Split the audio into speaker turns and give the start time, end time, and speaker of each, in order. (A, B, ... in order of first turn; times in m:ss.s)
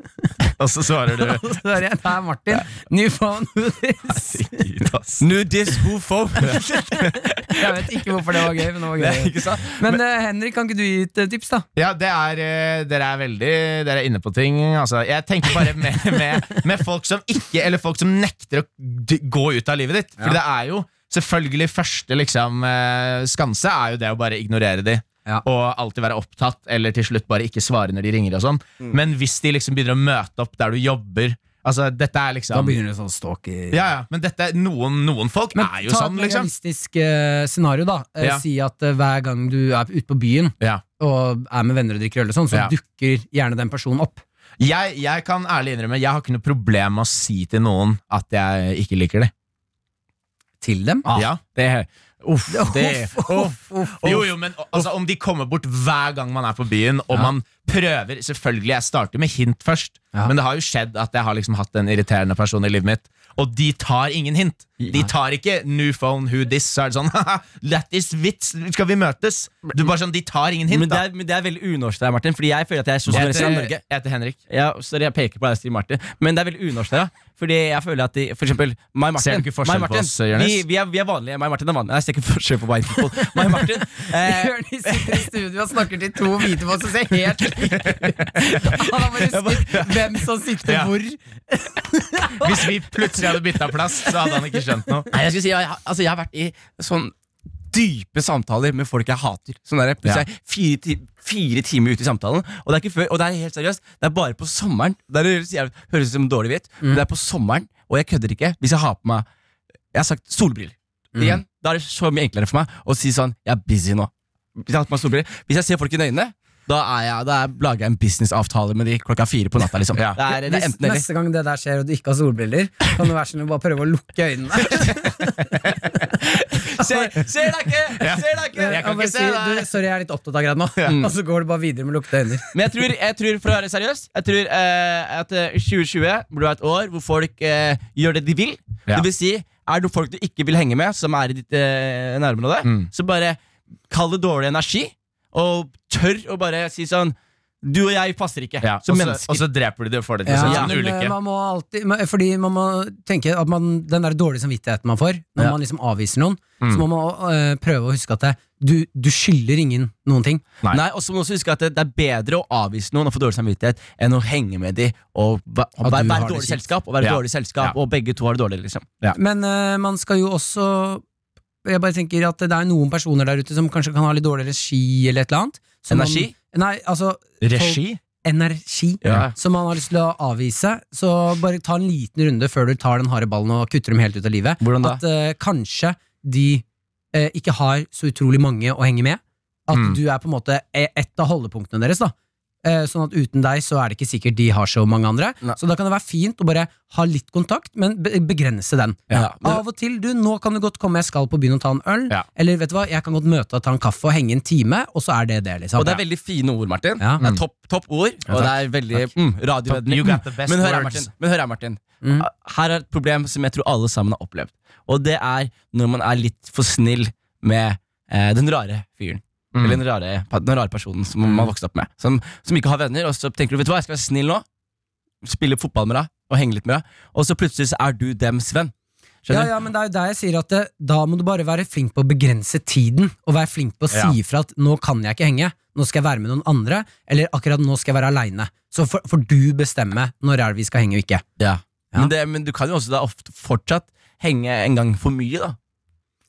0:00.6-0:01.4 A
0:01.2-0:04.6 B
0:04.3-0:05.2 A
0:05.2-0:10.0 C
0:06.7-0:11.6 B
0:11.8-0:32.8 A
0:32.5-0:33.8 B
0:33.7-0:36.5 A
0:35.5-0:44.2 B
0:44.6-0:49.3 A
0:50.6-0:51.1 B
0:51.1-0:54.2 C
0:51.1-0:51.4 A
0:52.5-0:54.2 B
0:54.0-1:11.0 A
1:10.7-1:13.8 C
1:13.1-1:14.4 A
1:14.5-1:25.3 C
1:19.2-1:20.6 A
1:23.3-1:33.4 B
1:28.4-1:30.2 C
1:30.6-1:30.9 A
1:32.4-1:35.1 A
1:34.1-1:34.5 B
1:35.1-1:37.1 C
1:37.7-1:49.2 C
1:49.9-2:01.0 C
1:51.1-1:51.4 B
2:00.3-2:06.2 B
2:06.2-2:08.8 C
2:06.8-2:07.2 B
2:08.0-2:09.7 A
2:08.6-2:12.5 B
2:12.5-2:23.4 C
2:23.9-2:29.4 C
2:28.6-2:31.1 A
2:30.2-2:40.4 B
2:30.4-2:30.7 C
2:40.7-2:48.9 C
2:45.8-2:46.6 B
2:47.0-2:47.8 A
2:49.1-2:51.0 B
2:51.6-3:26.0 B
2:55.9-2:56.3 C
2:57.4-2:58.0 A
2:59.0-2:59.3 C
3:04.6-3:05.0 C
3:09.7-3:10.0 A
3:19.1-3:19.6 C
3:25.8-3:44.4 C
3:28.3-3:29.0 A
3:29.6-3:31.1 A
3:39.5-3:39.8 A
3:45.2-3:48.7 C
3:49.2-3:49.5 C
3:49.3-4:01.2 B
4:01.4-4:05.6 C